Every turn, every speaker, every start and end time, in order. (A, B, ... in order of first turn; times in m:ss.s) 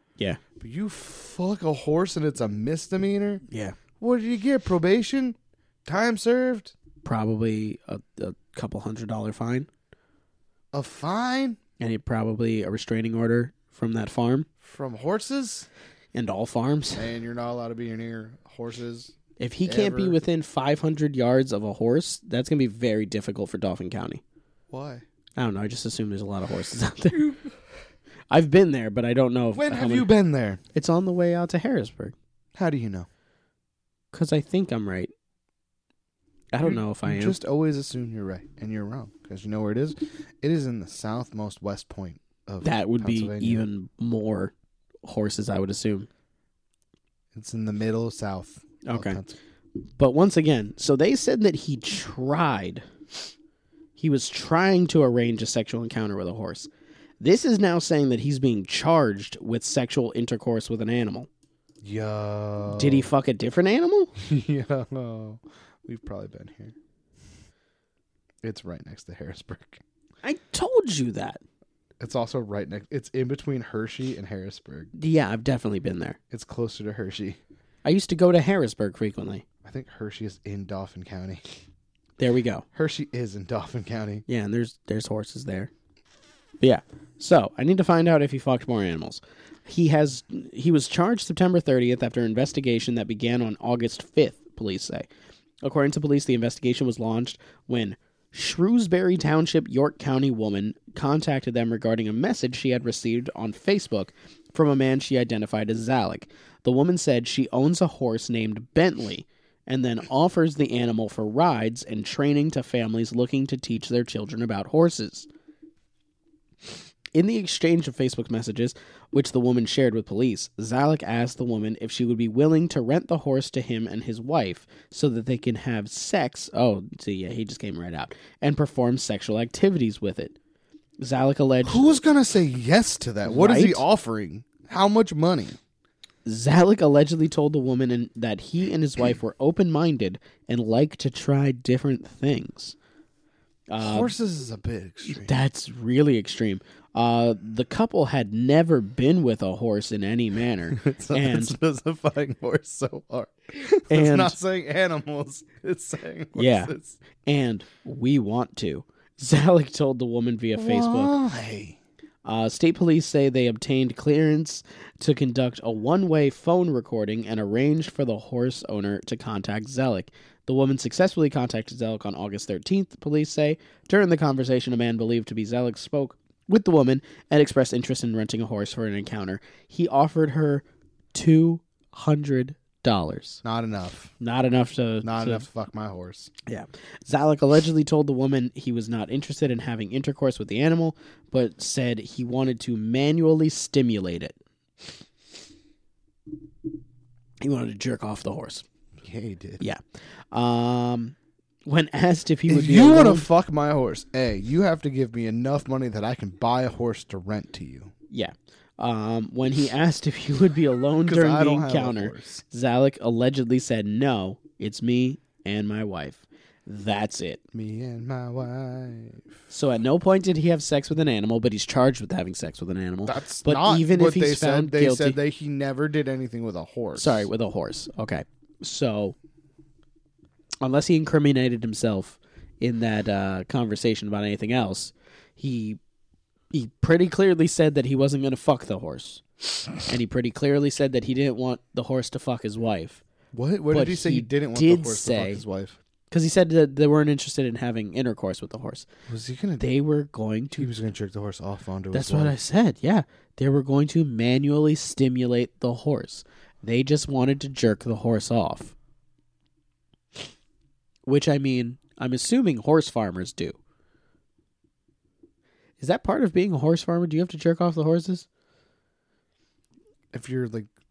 0:00.6-0:03.4 A
0:03.5-0:03.8 B
0:04.0-0:06.7 A
0:07.0-0:09.7 B
0:10.7-0:11.6 A
0:11.8-0:14.5 B
0:14.6-0:15.7 A
0:16.1-0:17.1 B
0:17.0-0:20.2 A
0:19.4-0:24.2 B
0:24.7-0:25.0 A
0:25.4-0:27.3 B
0:27.1-0:27.4 A
0:28.3-0:30.1 B
0:29.5-0:30.6 A
0:30.7-0:32.2 B
0:32.6-0:33.1 A
0:34.1-0:35.1 B
0:36.5-0:37.4 B
0:36.6-0:43.6 A
0:42.6-0:44.5 B
0:45.0-0:46.1 B
0:47.3-0:49.4 A
0:48.8-0:49.2 B
0:50.0-0:52.9 B
0:54.0-1:01.3 B
1:01.8-1:03.1 A
1:02.7-1:04.1 B
1:04.2-1:06.8 A
1:08.4-1:09.8 A
1:10.2-1:11.4 B
1:12.0-1:14.9 A
1:15.0-1:16.2 B
1:16.3-1:17.4 A
1:17.8-1:19.4 B
1:19.6-1:21.4 A
1:22.2-1:22.6 B
1:22.7-1:24.2 A
1:24.3-1:25.7 B
1:26.6-1:35.1 B
1:35.6-1:55.3 B
1:57.2-2:10.4 B
2:11.0-2:12.0 B
2:11.6-2:15.6 A
2:13.2-2:13.8 B
2:16.2-2:22.8 B
2:23.7-2:24.1 B
2:23.8-2:25.4 A
2:25.1-2:31.6 B
2:30.7-2:37.0 A
2:33.9-2:34.4 B
2:36.4-2:41.1 B
2:40.6-2:41.8 A
2:42.2-3:03.4 B
3:03.4-3:04.1 A
3:04.2-3:05.5 B
3:05.0-3:06.3 A
3:06.5-3:14.4 B
3:17.4-3:18.6 B
3:19.0-3:19.6 A
3:20.3-3:21.2 B
3:21.7-3:23.3 B
3:22.5-3:27.9 A
3:28.1-3:37.4 B
3:31.1-3:32.4 A
3:37.5-3:39.4 A
3:39.5-3:45.2 B
3:43.1-3:47.3 A
3:47.0-3:49.2 B
3:50.6-3:55.8 B
3:56.5-3:59.2 B
3:59.8-4:03.0 B
4:03.3-4:05.8 A
4:03.7-4:05.4 B
4:06.1-4:08.9 B
4:09.1-4:09.6 A
4:09.6-4:10.7 B
4:10.6-4:12.4 A
4:11.9-4:18.8 B
4:21.1-4:23.6 B
4:25.8-4:28.3 B
4:30.1-4:30.7 A